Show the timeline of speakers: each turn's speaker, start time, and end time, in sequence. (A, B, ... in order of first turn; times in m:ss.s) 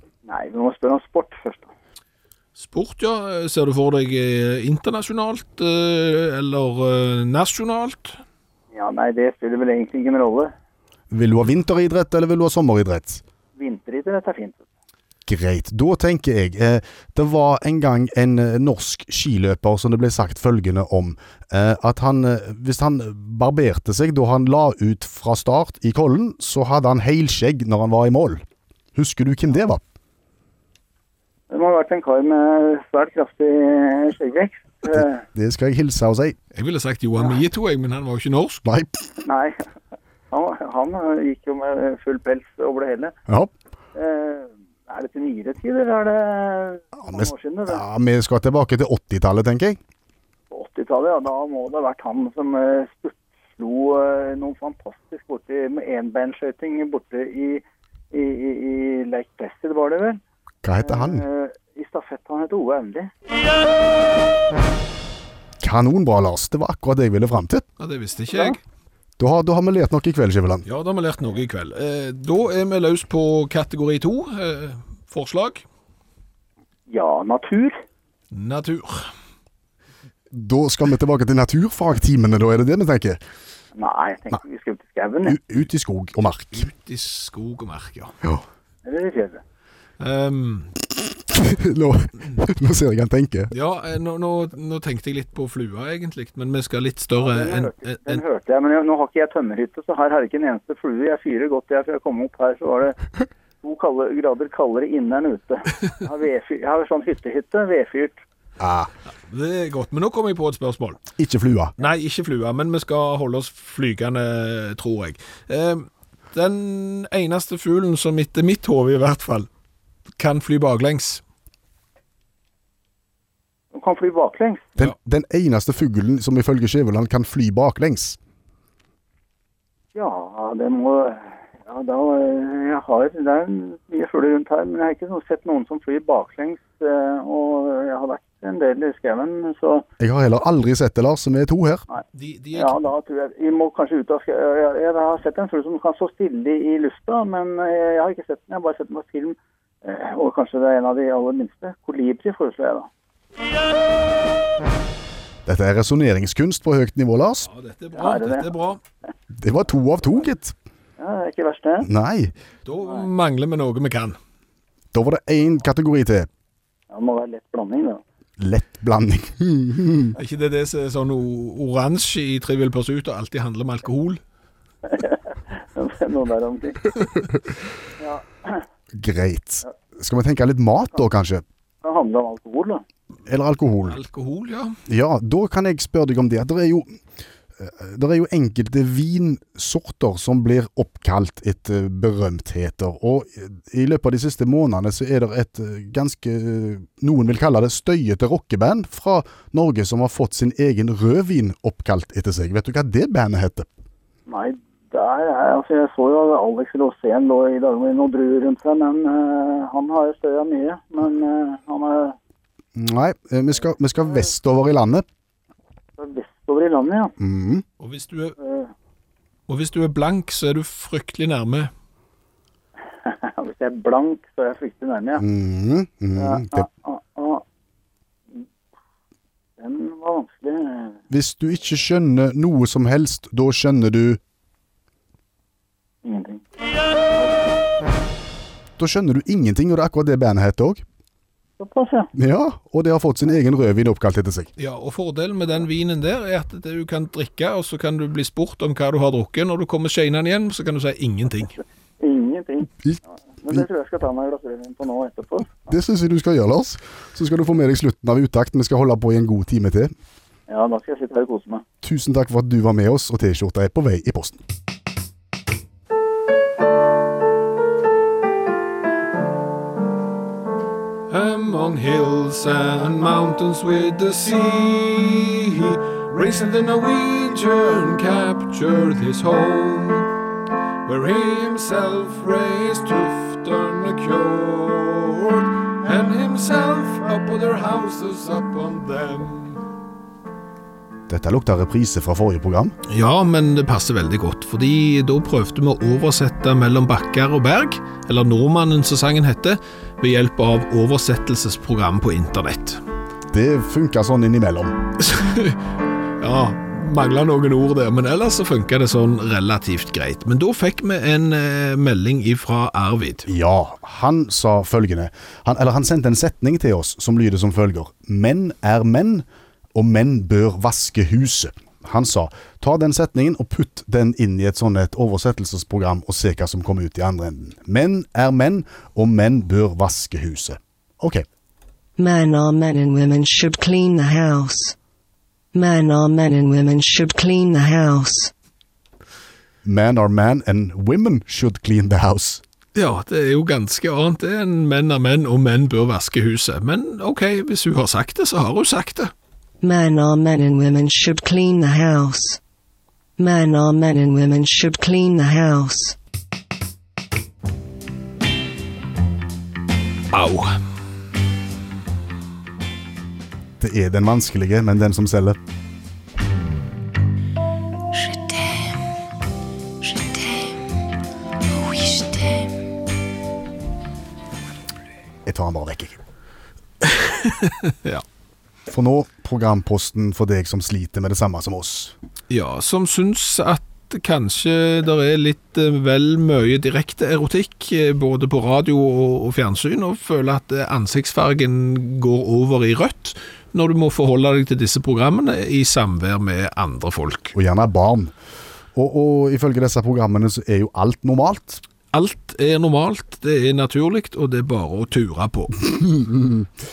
0:00.2-0:01.7 A
0:02.6-0:08.2 B
0:08.7-0:10.5 A
0:11.1-0:13.2 C
0:13.6-0:14.6 A
0:15.3-0:28.4 C
0:28.9-0:29.8 C
0:31.5-0:35.2 A
0:34.8-0:36.4 C
0:36.5-0:38.6 B
0:38.6-0:38.9 C
0:39.2-0:39.6 A
0:40.3-0:43.1 A
0:43.3-0:43.5 C
0:43.9-0:47.8 A
0:47.0-0:49.8 C
0:50.5-1:00.2 A
1:00.6-1:01.2 C
1:00.8-1:03.1 A
1:05.6-1:07.6 C
1:07.8-1:08.6 B
1:08.3-1:08.6 A
1:09.2-1:10.6 C
1:10.6-1:15.6 B
1:16.9-1:17.8 A
1:18.3-1:19.1 B
1:20.3-1:23.2 C
1:23.7-1:25.4 A
1:25.2-1:26.7 C
1:26.6-1:28.2 B
1:28.8-1:29.4 A
1:30.0-1:30.7 B
1:31.3-1:33.5 C
1:33.5-1:38.2 B
1:37.2-1:43.0 A
1:43.6-1:48.2 A
1:48.6-1:48.9 C
1:49.1-1:51.0 B
1:51.2-1:51.7 C
1:51.8-1:59.5 B
2:00.2-2:01.2 B
2:03.7-2:04.7 A
2:04.8-2:08.2 C
2:09.9-2:19.8 A
2:20.0-2:21.8 C
2:22.1-2:22.9 B
2:22.5-2:32.9 A
2:35.4-2:37.5 C
2:37.4-2:38.8 B
2:38.0-2:38.5 A
2:39.4-2:40.5 C
2:41.0-2:41.9 A
2:41.8-2:42.3 C
2:42.6-2:44.2 B
2:44.9-2:46.3 C
2:46.9-2:48.0 A
2:48.4-2:50.2 C
2:50.2-2:54.2 B
2:54.8-2:56.9 A
2:58.0-2:58.6 A
2:58.9-3:01.4 C
3:01.8-3:02.8 A
3:03.2-3:04.0 C
3:03.8-3:04.8 B
3:04.9-3:07.0 C
3:07.6-3:23.7 C
3:24.3-3:32.2 A
3:32.8-3:35.0 C
3:34.0-3:34.2 A
3:36.0-3:37.1 A
3:37.2-3:37.6 C
3:37.8-3:38.4 B
3:38.4-3:38.7 A
3:39.5-3:41.7 B
3:43.0-3:45.2 A
3:45.2-3:46.6 C
3:46.2-3:47.4 A
3:49.6-3:51.0 A
3:51.1-3:54.2 C
3:56.0-3:56.4 A
3:58.8-4:00.8 C
4:01.6-4:02.1 A
4:02.1-4:04.5 C
4:04.6-4:11.6 B
4:12.0-4:12.7 A
4:12.8-4:13.6 C
4:13.4-4:15.6 A
4:15.7-4:19.9 C
4:20.5-4:21.6 A
4:21.8-4:24.4 C
4:31.1-4:40.1 B
4:40.8-4:49.6 B
4:51.1-4:52.7 C
4:52.9-5:02.8 B
5:03.3-5:04.8 C
5:05.0-5:05.6 B
5:06.2-5:13.3 B
5:13.2-5:31.2 C
5:32.0-5:34.7 D
5:35.5-5:38.3 D
5:39.6-5:42.4 C
5:42.7-5:49.1 B
5:49.6-5:52.4 D
5:53.2-5:55.9 D
6:00.1-6:00.6 B
6:03.6-6:05.4 C
6:15.2-6:16.0 C
6:16.8-6:18.0 B
6:18.7-6:21.9 C
6:22.3-6:37.3 B
6:37.3-6:38.1 C
6:38.7-6:41.6 C
6:41.9-6:45.6 B
6:45.6-6:46.5 C